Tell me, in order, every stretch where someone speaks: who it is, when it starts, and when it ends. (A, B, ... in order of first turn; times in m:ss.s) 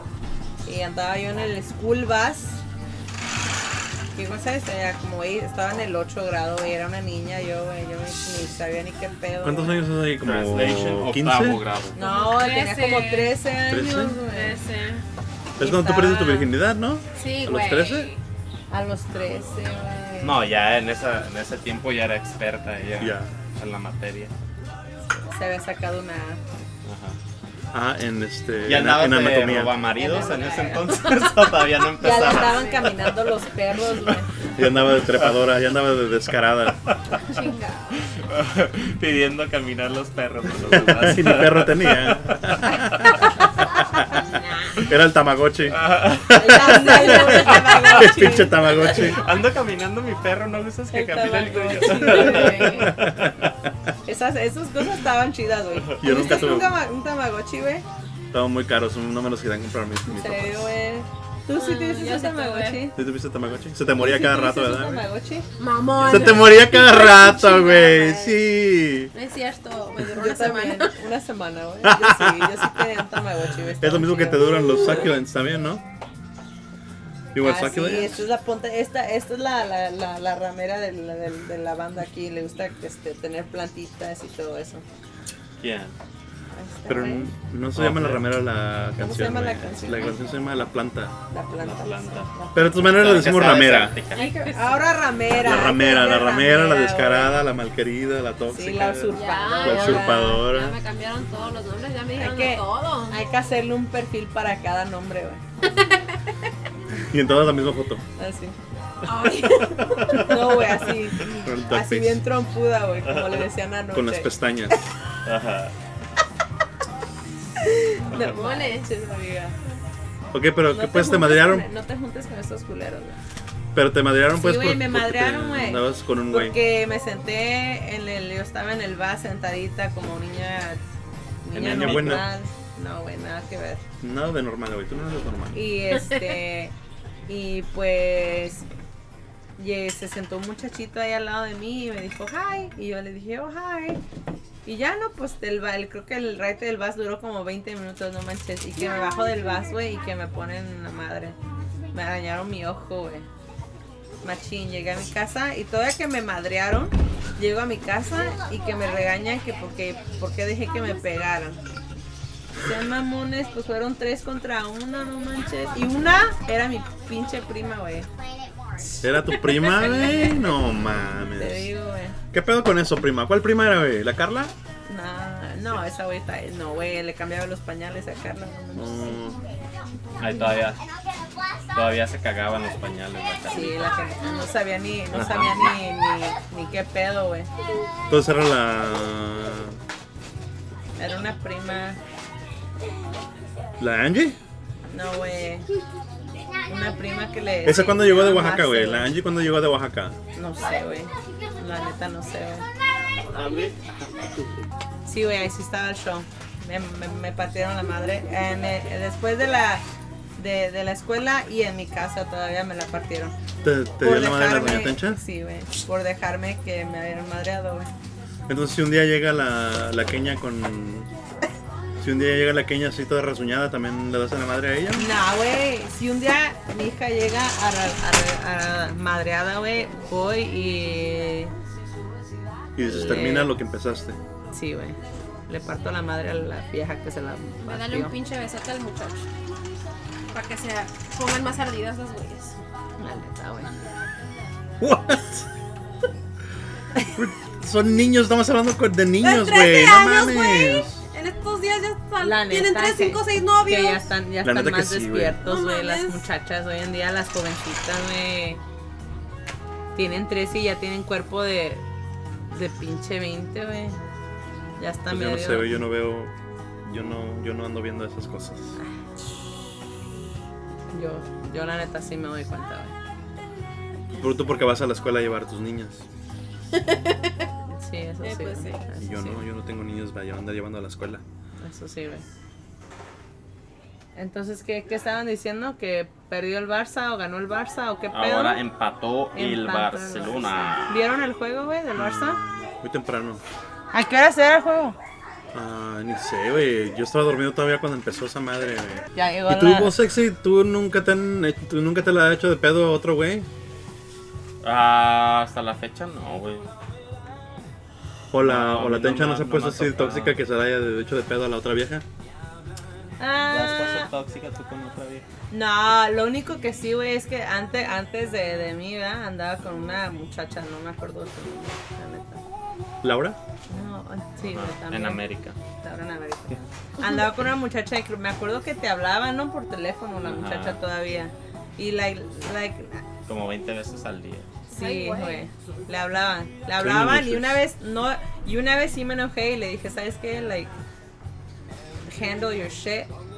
0:00.6-0:02.6 A
0:04.1-0:09.8 A
0:09.4-0:11.6 B
0:10.2-0:12.0 C
0:11.9-0:14.6 A
0:12.0-0:13.4 D
0:13.7-0:14.2 B
0:14.1-0:15.0 D
0:15.6-0:18.1 B
0:15.6-0:16.5 A
0:17.2-0:18.2 D
0:18.7-0:20.4 A
0:20.2-0:24.3 C
0:23.0-0:23.3 B
0:25.2-0:26.4 A
0:26.8-0:27.2 C
0:27.7-0:29.8 B
0:28.7-0:33.1 C
0:29.9-0:31.0 A
0:32.0-0:34.3 A
0:32.1-0:32.8 D
0:34.6-0:36.8 B
0:37.2-0:37.9 D
0:38.0-0:42.2 C
0:40.6-0:43.3 B
0:44.8-0:49.2 B
0:45.7-0:47.0 C
0:46.3-0:49.2 A
0:48.9-0:53.1 C
0:50.9-0:52.9 A
0:51.9-0:53.0 D
0:52.2-0:53.7 B
0:54.0-0:57.9 A
0:56.0-0:56.8 B
0:58.3-1:00.8 B
1:00.1-1:03.0 A
1:01.5-1:02.8 D
1:03.0-1:05.0 B
1:04.0-1:05.5 A
1:05.6-1:08.4 D
1:06.0-1:09.1 B
1:09.1-1:10.9 D
1:10.1-1:15.1 A
1:11.8-1:12.9 B
1:13.8-1:15.8 B
1:17.3-1:18.3 B
1:17.4-1:24.8 A
1:25.6-1:26.0 C
1:26.5-1:27.3 A
1:26.9-1:31.2 B
1:27.7-1:28.3 C
1:29.0-1:30.2 A
1:31.3-1:32.9 A
1:31.6-1:34.3 C
1:32.6-1:34.0 B
1:34.1-1:34.9 D
1:34.2-1:37.4 A
1:35.3-1:40.8 B
1:38.5-1:40.5 A
1:39.1-1:43.2 D
1:42.2-1:45.4 A
1:47.0-1:48.0 B
1:48.2-1:48.6 A
1:49.0-1:50.6 D
1:49.8-1:50.3 B
1:50.1-1:54.3 A
1:51.2-1:52.2 B
1:53.1-1:53.4 C
1:53.9-1:54.9 B
1:55.2-1:55.7 C
1:57.6-1:59.6 A
1:58.1-1:58.9 D
2:00.3-2:01.7 B
2:00.7-2:03.2 A
2:03.8-2:06.6 B
2:04.3-2:10.8 A
2:11.4-2:13.8 A
2:11.6-2:12.2 C
2:11.6-2:12.3 B
2:14.0-2:15.6 B
2:15.5-2:16.7 A
2:17.3-2:18.7 A
2:19.6-2:24.0 A
2:24.6-2:31.4 A
2:31.9-2:33.3 A
2:34.2-2:41.6 A
2:42.6-2:48.1 A
2:48.8-2:50.6 A
2:49.0-2:51.7 B
2:51.4-2:52.2 A
2:52.3-2:54.5 B
2:54.9-2:59.2 A
2:58.7-2:59.4 B
3:00.2-3:00.8 C
3:01.7-3:03.9 C
3:03.5-3:07.5 A
3:05.1-3:05.7 C
3:08.1-3:09.8 B
3:11.0-3:12.0 A
3:13.8-3:14.4 B
3:14.9-3:15.7 A
3:16.7-3:19.1 A
3:17.6-3:20.2 B
3:20.4-3:22.6 A
3:23.3-3:24.3 C
3:25.1-3:29.8 A
3:30.4-3:33.4 A
3:33.6-3:35.2 B
3:34.0-3:37.9 A
3:38.5-3:41.1 B
3:42.0-3:45.1 B
3:45.0-3:51.5 A
3:52.8-3:54.2 B
3:52.8-3:53.5 A
3:54.5-3:58.1 A
3:57.6-3:59.3 D
4:00.3-4:02.6 D
4:03.0-4:03.7 A
4:04.8-4:05.5 B
4:07.1-4:11.0 B
4:09.2-4:14.1 D
4:12.2-4:18.6 A
4:14.4-4:15.4 B
4:15.4-4:16.3 D
4:20.0-4:21.8 A
4:22.5-4:24.0 A
4:24.8-4:25.8 A
4:25.1-4:26.3 B
4:26.8-4:28.8 B
4:30.9-4:33.0 A
4:34.2-4:36.0 B
4:36.8-4:37.2 D
4:37.7-4:39.4 A
4:38.2-4:38.9 D
4:39.0-4:41.2 B
4:41.6-4:42.2 A
4:44.2-4:48.6 A
4:48.1-4:51.0 C
4:49.4-4:52.4 A
4:52.0-4:53.4 B
4:53.9-4:55.0 A
4:55.5-5:03.5 B
4:59.2-5:00.0 A
5:04.6-5:06.7 C
5:08.3-5:12.0 B
5:08.4-5:10.4 C
5:13.2-5:14.1 A
5:13.4-5:15.3 C
5:15.5-5:22.4 A
5:23.0-5:23.4 B
5:23.7-5:25.2 A
5:24.5-5:25.6 C
5:25.8-5:33.0 A
5:30.2-5:30.8 C
5:33.3-5:34.6 C
5:34.7-5:40.7 A
5:34.7-5:35.5 D
5:36.8-5:37.6 B
5:42.0-5:43.1 A